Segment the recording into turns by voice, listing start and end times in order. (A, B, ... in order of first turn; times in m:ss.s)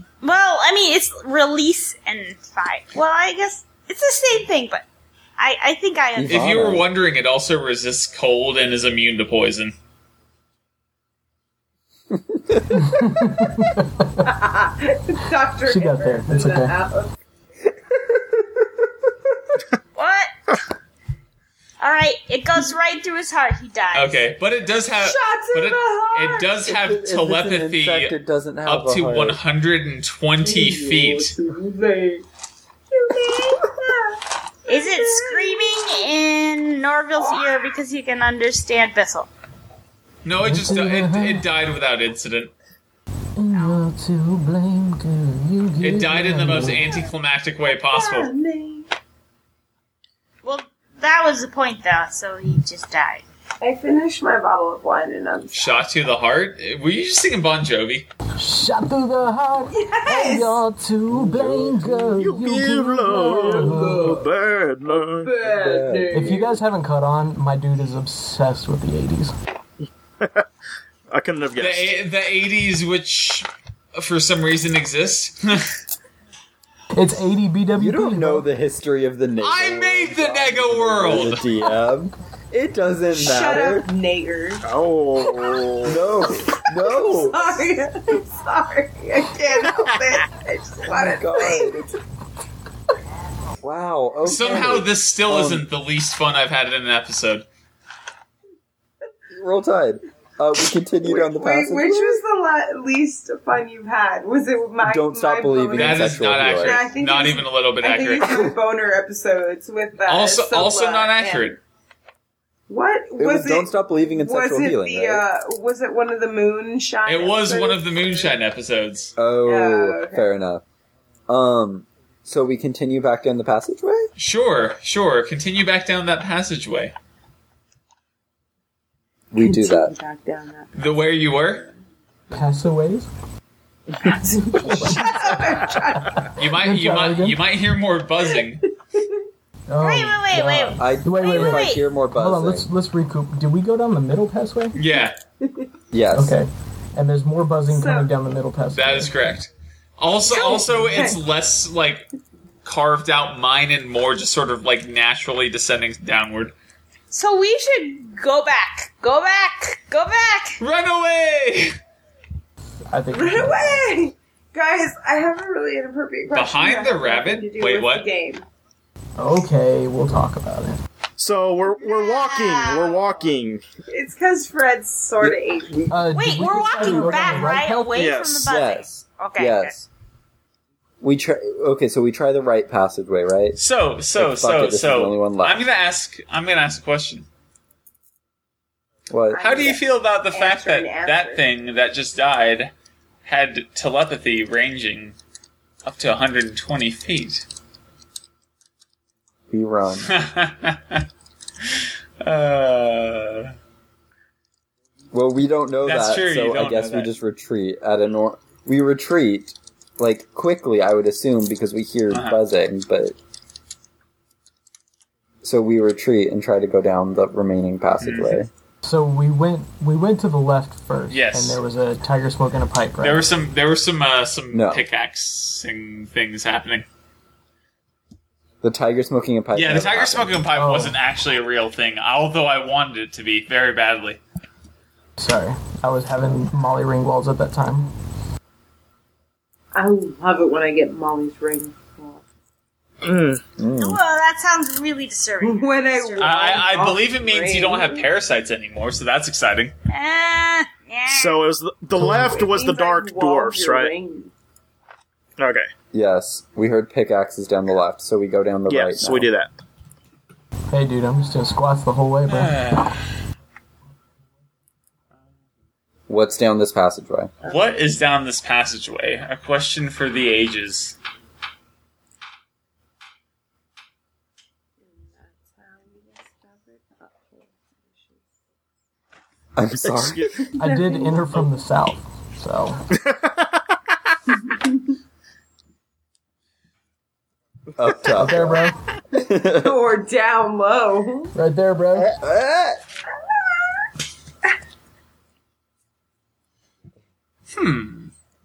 0:00.2-0:04.8 A
0:05.4-0:06.4 A
0:06.2-0:06.9 B
0:06.3-0:09.7 C
0:12.1-0:13.0 B
0:12.7-0:14.3 D
0:14.2-0:17.2 E
0:15.7-0:16.7 D
0:20.0-0:20.3 A
0:21.8-0:24.3 A
0:23.9-0:31.3 C
0:25.0-0:26.5 E
0:26.6-0:29.4 B
0:30.4-0:32.2 E
0:32.9-0:36.1 E
0:34.7-0:39.3 A
0:37.2-0:37.7 E
0:40.2-0:42.5 C
0:40.4-0:41.4 D
0:43.4-0:46.9 D
0:45.8-0:48.3 C
0:46.8-0:47.0 E
0:47.9-0:48.9 E
0:50.4-0:53.2 A
0:53.6-0:55.8 E
0:55.5-0:58.1 C
0:58.4-1:04.2 D
0:59.7-1:00.6 E
1:01.1-1:02.0 B
1:02.1-1:05.3 F
1:05.2-1:06.6 E
1:05.4-1:06.4 B
1:06.1-1:09.3 D
1:11.1-1:11.9 F
1:11.6-1:15.7 C
1:16.9-1:18.5 D
1:17.8-1:23.9 B
1:19.4-1:21.4 C
1:23.1-1:24.6 E
1:24.6-1:26.0 F
1:25.8-1:27.8 B
1:26.3-1:31.9 E
1:30.8-1:31.9 B
1:33.6-1:35.6 B
1:34.2-1:37.4 C
1:39.3-1:42.2 B
1:41.0-1:51.6 E
1:44.8-1:46.8 B
1:45.7-1:48.4 C
1:50.0-1:51.6 C
1:52.7-1:58.3 E
1:53.2-1:55.2 B
1:57.0-1:59.1 C
1:59.2-2:00.6 B
1:59.4-2:00.2 E
2:01.3-2:04.1 B
2:04.2-2:06.9 C
2:09.3-2:09.9 B
2:09.4-2:11.7 E
2:10.8-2:11.7 C
2:12.3-2:13.1 D
2:14.0-2:16.4 E
2:14.7-2:15.1 D
2:16.4-2:18.6 C
2:16.5-2:17.4 D
2:18.9-2:19.2 E
2:19.7-2:24.8 D
2:19.8-2:21.8 A
2:20.8-2:22.7 B
2:24.7-2:25.2 C
2:25.4-2:25.7 E
2:25.9-2:26.4 B
2:26.1-2:29.1 D
2:27.7-2:28.1 E
2:28.7-2:32.0 C
2:30.3-2:31.2 E
2:30.3-2:30.6 A
2:32.6-2:36.5 C
2:37.1-2:40.6 A
2:40.6-2:41.8 C
2:42.9-2:43.8 D
2:43.1-2:48.4 E
2:46.3-2:48.1 C
2:49.2-2:50.8 D
2:51.2-2:53.6 F
2:51.8-2:53.0 A
2:53.9-2:55.7 E
2:55.2-2:57.6 B
2:55.9-2:57.9 D
2:56.1-2:59.7 A
2:57.9-2:58.4 F
2:58.4-2:59.9 B
3:01.0-3:03.6 B
3:03.6-3:07.3 C
3:04.2-3:05.6 B
3:09.1-3:09.6 B
3:09.3-3:11.4 E
3:09.4-3:12.7 C
3:13.2-3:15.2 C
3:15.8-3:17.4 C
3:19.5-3:20.1 B
3:20.1-3:21.0 C
3:21.6-3:23.5 C
3:25.1-3:33.2 B
3:25.8-3:27.1 C
3:32.1-3:32.4 C
3:35.4-3:38.5 B
3:38.0-3:38.4 C
3:38.8-3:43.3 D
3:41.1-3:41.6 C
3:43.0-3:46.8 C
3:44.5-3:44.8 B
3:48.6-3:50.4 B
3:49.5-3:54.2 C
3:50.5-3:51.0 D
3:55.2-3:57.9 D
3:59.7-4:02.2 E
4:03.0-4:03.4 F
4:03.6-4:04.0 B
4:03.8-4:06.6 A
4:05.4-4:08.1 E
4:06.2-4:09.7 C
4:09.9-4:11.4 A
4:11.1-4:13.9 F
4:12.0-4:14.3 E
4:15.4-4:15.7 F
4:15.9-4:19.3 B
4:18.7-4:19.5 F
4:20.7-4:22.5 D
4:22.3-4:23.0 C
4:26.1-4:27.3 B
4:27.4-4:27.7 E
4:27.4-4:31.0 C
4:34.8-4:38.2 E
4:39.6-4:40.3 B
4:39.8-4:40.4 F
4:40.6-4:41.5 E
4:40.6-4:42.8 D
4:43.0-4:43.5 F
4:47.7-4:49.8 B
4:48.1-4:48.8 D
4:49.5-4:51.3 E
4:51.3-4:52.1 D
4:51.9-4:52.8 B
4:57.5-4:58.1 C